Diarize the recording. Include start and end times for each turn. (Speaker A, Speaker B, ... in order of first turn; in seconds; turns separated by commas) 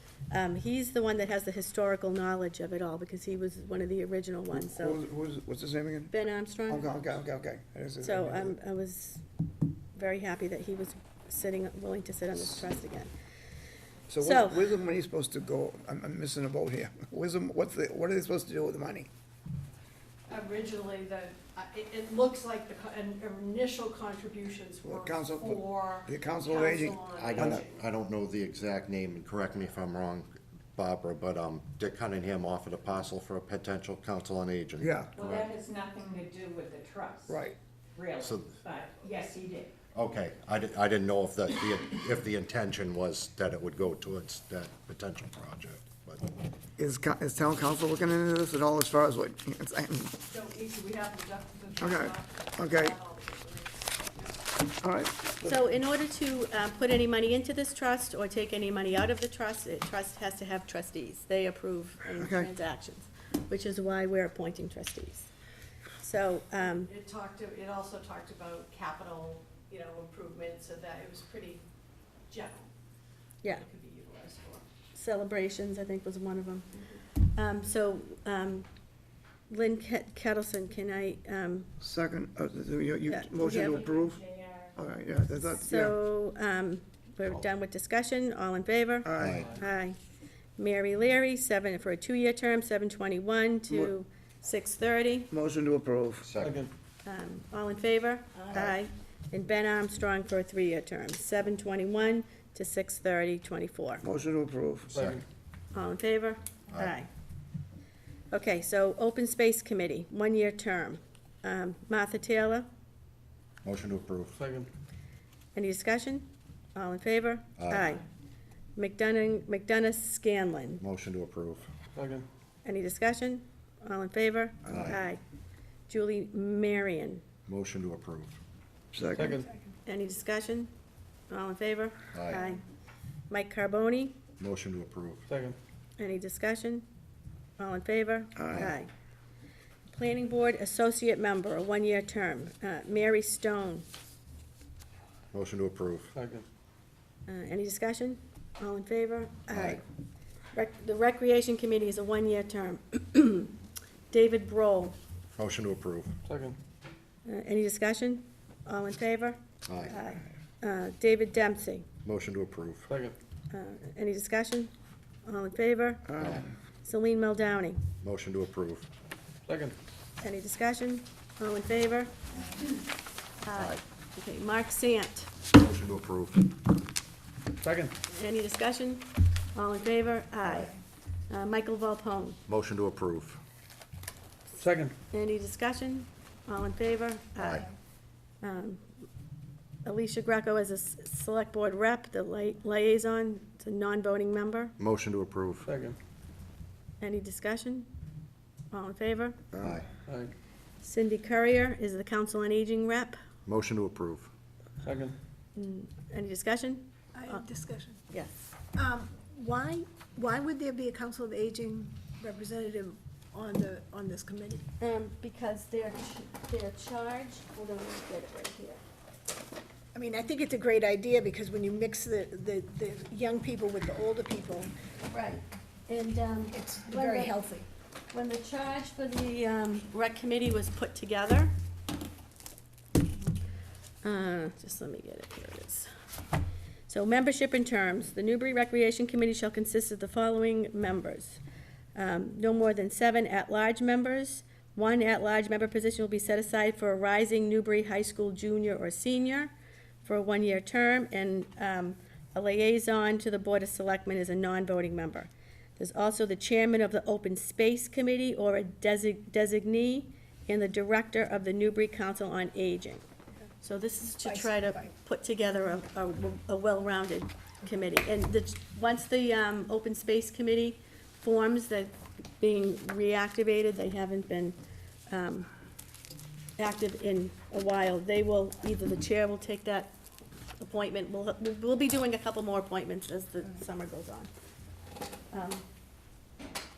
Speaker A: 0.3-5.0, Speaker B: 4.5-6.1, Speaker A: 6.1-6.9, Speaker B: 6.7-8.6, Speaker A: 8.0-9.2, Speaker A: 9.9-13.1, Speaker B: 14.1-19.1, Speaker A: 14.2-14.6, Speaker C: 20.3-27.8, Speaker B: 24.8-27.6, Speaker D: 27.1-35.6, Speaker B: 34.8-35.1, Speaker E: 35.2-37.3, Speaker B: 37.3-37.6, Speaker E: 38.0-39.7, Speaker D: 38.2-38.6, Speaker D: 39.9-46.2, Speaker B: 46.8-50.2, Speaker C: 50.3-54.4, Speaker B: 51.8-53.0, Speaker B: 54.8-55.6, Speaker A: 55.4-65.3, Speaker B: 62.1-62.5, Speaker A: 66.0-66.9, Speaker C: 66.6-71.6, Speaker C: 72.3-72.7, Speaker C: 73.4-74.7, Speaker A: 74.9-76.7, Speaker A: 77.2-78.7, Speaker A: 79.5-81.7, Speaker B: 81.8-86.0, Speaker A: 83.1-83.9, Speaker A: 85.6-90.0, Speaker B: 89.0-89.4, Speaker D: 89.2-89.5, Speaker A: 90.6-95.3, Speaker B: 95.3-96.3, Speaker D: 96.2-96.6, Speaker F: 96.4-96.7, Speaker A: 97.0-104.0, Speaker D: 98.5-98.8, Speaker B: 104.0-104.9, Speaker F: 104.9-105.2, Speaker D: 105.0-105.2, Speaker A: 105.7-107.1, Speaker D: 106.7-107.0, Speaker A: 108.3-112.7, Speaker D: 113.6-114.4, Speaker F: 114.4-114.7, Speaker A: 115.5-118.0, Speaker D: 117.6-118.0, Speaker A: 118.8-120.8, Speaker D: 120.8-121.7, Speaker F: 122.0-122.3, Speaker A: 122.6-125.2, Speaker D: 124.7-125.0, Speaker A: 125.9-127.2, Speaker D: 127.5-128.4, Speaker B: 128.9-129.3, Speaker F: 129.2-129.5, Speaker A: 129.9-130.7, Speaker A: 131.3-132.6, Speaker D: 132.1-132.4, Speaker A: 133.3-134.2, Speaker D: 134.4-135.2, Speaker F: 135.3-135.6, Speaker A: 136.0-136.8, Speaker A: 137.6-138.9, Speaker B: 138.4-138.8, Speaker A: 139.9-143.9, Speaker D: 145.3-146.1, Speaker F: 146.1-146.4, Speaker A: 147.3-149.8, Speaker D: 149.5-149.8, Speaker A: 150.5-153.6, Speaker A: 154.1-155.0, Speaker D: 155.4-156.2, Speaker F: 156.3-156.6, Speaker A: 157.2-161.9, Speaker D: 159.7-160.0, Speaker D: 162.0-162.9, Speaker F: 162.9-163.2, Speaker A: 163.5-164.7, Speaker A: 165.2-166.1, Speaker B: 166.1-166.4, Speaker D: 166.2-166.5, Speaker A: 166.8-167.8, Speaker D: 168.0-168.9, Speaker F: 169.5-169.8, Speaker A: 170.2-172.1, Speaker A: 173.4-175.3, Speaker D: 173.5-173.8, Speaker D: 175.5-176.6, Speaker F: 177.6-177.9, Speaker A: 178.1-180.7, Speaker D: 180.4-180.7, Speaker A: 181.3-182.4, Speaker D: 182.5-183.4, Speaker F: 184.6-184.9, Speaker A: 185.1-187.7, Speaker D: 187.4-187.7, Speaker A: 188.4-188.8, Speaker A: 189.8-194.8, Speaker D: 194.8-195.7, Speaker F: 195.7-196.0, Speaker A: 197.0-197.9, Speaker A: 198.7-199.4, Speaker D: 199.6-199.9, Speaker A: 200.8-203.2, Speaker D: 203.5-204.3, Speaker F: 204.8-205.2, Speaker A: 205.6-207.4, Speaker G: 207.1-208.0, Speaker A: 208.1-208.5, Speaker G: 208.8-214.7, Speaker A: 214.8-218.8, Speaker G: 219.9-224.7, Speaker A: 225.1-227.3, Speaker G: 226.5-227.7, Speaker A: 228.1-231.5, Speaker A: 234.0-235.9, Speaker A: 236.9-241.4, Speaker A: 241.9-249.5, Speaker A: 250.0-263.0, Speaker A: 263.6-274.6, Speaker G: 264.3-264.8, Speaker A: 275.1-275.5, Speaker A: 276.6-279.9, Speaker A: 280.6-284.3, Speaker A: 285.3-285.6